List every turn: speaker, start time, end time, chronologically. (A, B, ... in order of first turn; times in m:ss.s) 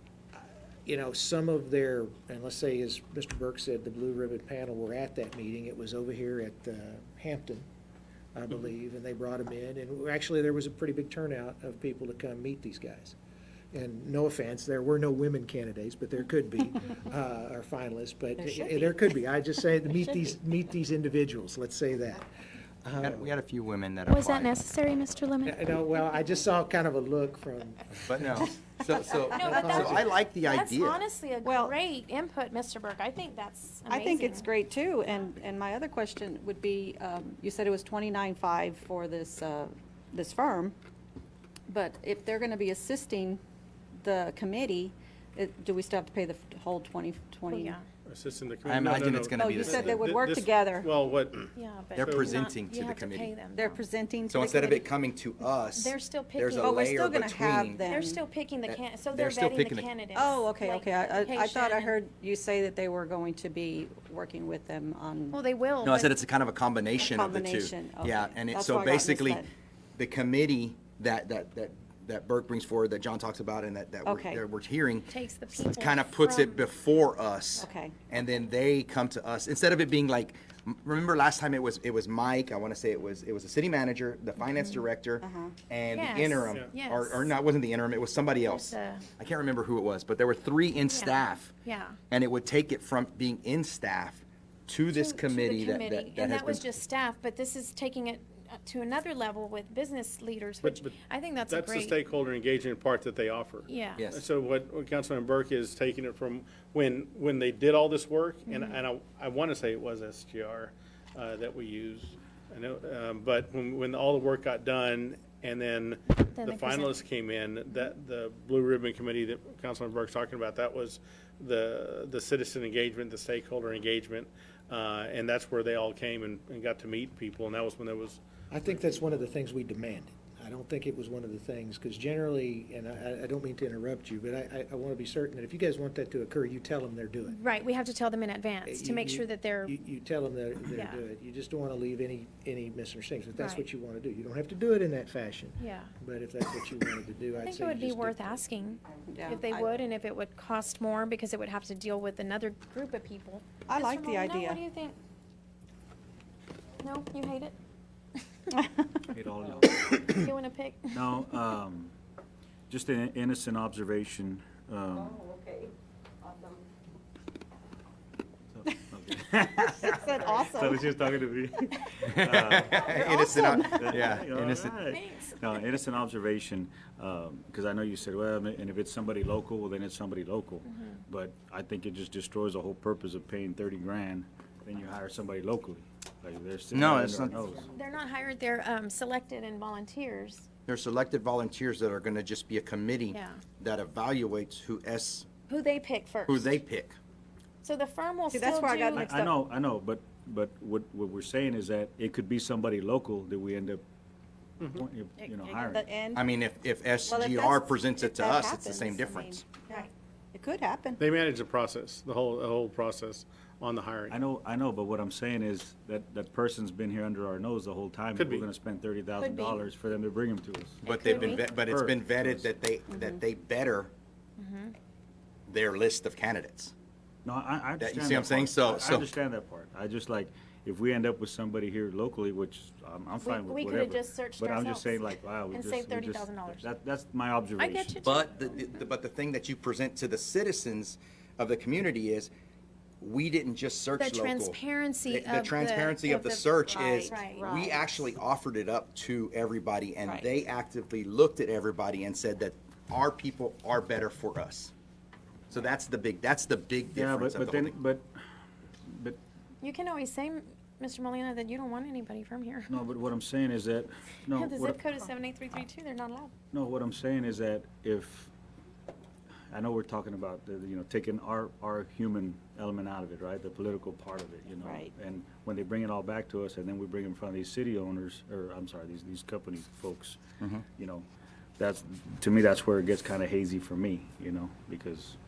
0:00.3-0:07.7 A
0:08.3-0:13.2 A
0:13.7-0:22.2 A
0:18.5-0:18.8 B
0:22.8-0:23.3 A
0:23.0-0:24.5 C
0:24.1-0:25.6 D
0:25.4-0:28.5 A
0:28.1-0:31.0 C
0:29.3-0:34.5 D
0:29.6-0:30.0 A
0:31.4-0:31.7 B
0:33.9-0:40.7 B
0:41.7-0:43.4 B
0:44.0-0:47.8 B
0:47.5-0:47.8 D
0:48.1-0:52.4 E
0:48.7-0:50.0 C
0:49.4-0:50.9 B
0:51.6-0:53.8 D
0:52.0-0:53.4 C
0:53.5-0:54.9 B
0:54.3-0:58.0 C
0:55.7-0:56.9 D
0:56.6-0:58.2 B
0:57.9-1:01.9 D
0:58.7-0:59.9 C
1:00.1-1:05.4 B
1:05.3-1:06.1 D
1:05.8-1:09.4 C
1:07.0-1:09.5 B
1:10.0-1:31.5 C
1:14.0-1:14.4 B
1:15.1-1:16.7 D
1:17.6-1:17.9 B
1:25.2-1:25.5 B
1:25.9-1:27.4 D
1:28.4-1:29.1 D
1:30.8-1:32.0 D
1:32.1-1:36.6 C
1:34.9-1:42.0 D
1:40.6-1:40.9 E
1:41.5-2:08.2 E
1:43.7-1:44.1 D
1:44.0-1:44.2 C
1:56.3-1:57.0 D
2:08.5-2:17.4 A
2:17.2-2:19.8 D
2:18.6-2:28.4 A
2:20.7-2:21.0 D
2:23.3-2:23.7 D
2:25.6-2:25.9 D
2:27.4-2:35.0 D
2:29.1-2:29.7 B
2:33.7-2:34.6 B
2:36.8-2:37.6 D
2:38.5-2:39.0 B
2:39.1-2:40.3 F
2:40.2-2:41.0 D
2:40.9-2:41.9 F
2:42.7-2:45.2 F
2:44.9-2:46.6 B
2:48.5-3:07.7 F
2:49.6-2:50.9 B
2:52.1-2:54.8 C
2:52.7-2:54.1 B
2:54.9-2:55.2 D
3:06.7-3:07.5 C
3:07.7-3:10.5 D
3:10.7-3:15.3 C
3:13.1-3:13.4 D
3:15.5-3:16.5 D
3:16.3-3:17.0 C
3:17.6-3:19.0 D
3:18.3-3:19.3 B
3:18.9-3:23.8 F
3:24.6-3:24.8 E
3:24.7-3:25.9 F
3:25.5-3:26.2 B
3:26.2-3:29.5 C
3:27.1-3:31.0 B
3:31.0-3:34.2 E
3:34.1-3:42.5 F
3:38.2-3:38.5 E
3:39.2-3:39.5 B
3:40.8-3:43.9 C
3:40.8-3:41.5 D
3:44.4-3:44.8 D
3:45.5-3:46.7 C
3:47.2-3:58.6 F
3:47.8-3:49.1 C
3:53.2-3:56.7 D
3:57.6-3:58.1 D
3:58.0-4:02.3 C
4:03.0-4:14.7 C
4:04.0-4:06.5 D
4:06.7-4:07.9 B
4:07.1-4:07.5 D
4:15.5-4:17.7 C
4:16.9-4:18.1 F
4:18.9-4:19.2 F
4:19.6-4:22.8 D
4:22.7-4:24.8 F
4:24.3-4:26.3 D
4:26.5-4:28.3 F
4:29.5-4:40.2 F
4:34.6-4:34.9 B
4:40.8-4:41.1 F
4:41.6-4:45.2 F